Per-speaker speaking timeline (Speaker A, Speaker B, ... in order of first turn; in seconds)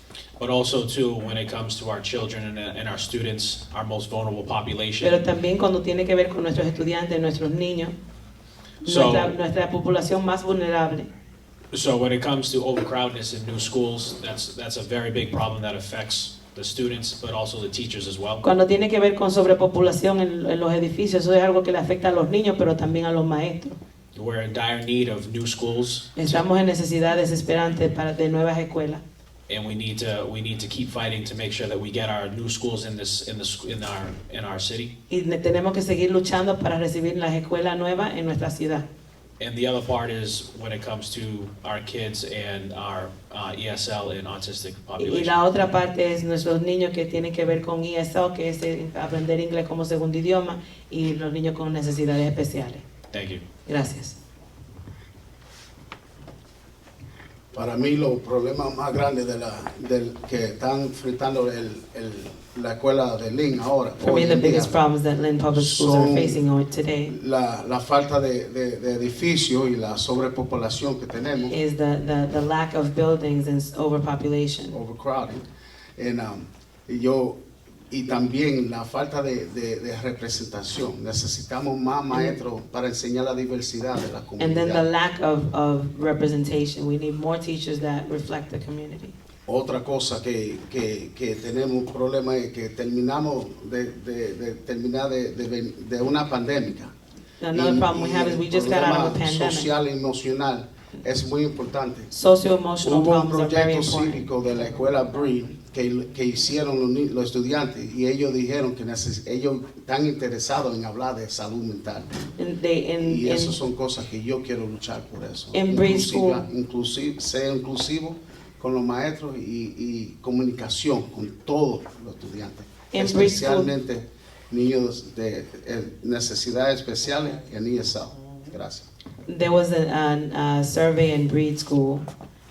Speaker A: 0.4-5.2, 8.8-9.3, 11.7-18.4, 24.1-26.1, 29.5-34.9, 39.4-45.4, 53.1-53.4
Speaker B: 5.0-8.0, 8.8-11.1, 18.4-23.8, 26.1-29.0, 35.1-38.9, 45.0-52.8, 53.6-54.2, 64.0-67.2, 71.5-74.8, 84.4-89.1, 97.4-99.7, 102.1-104.3, 112.4-113.6, 115.5-116.4, 122.9-123.7, 129.2-132.1
Speaker C: 57.5-64.8, 65.5-66.4, 67.1-71.6, 74.7-77.4, 77.9-84.8, 89.5-96.9, 97.5-102.1, 102.8-112.2, 113.0-128.9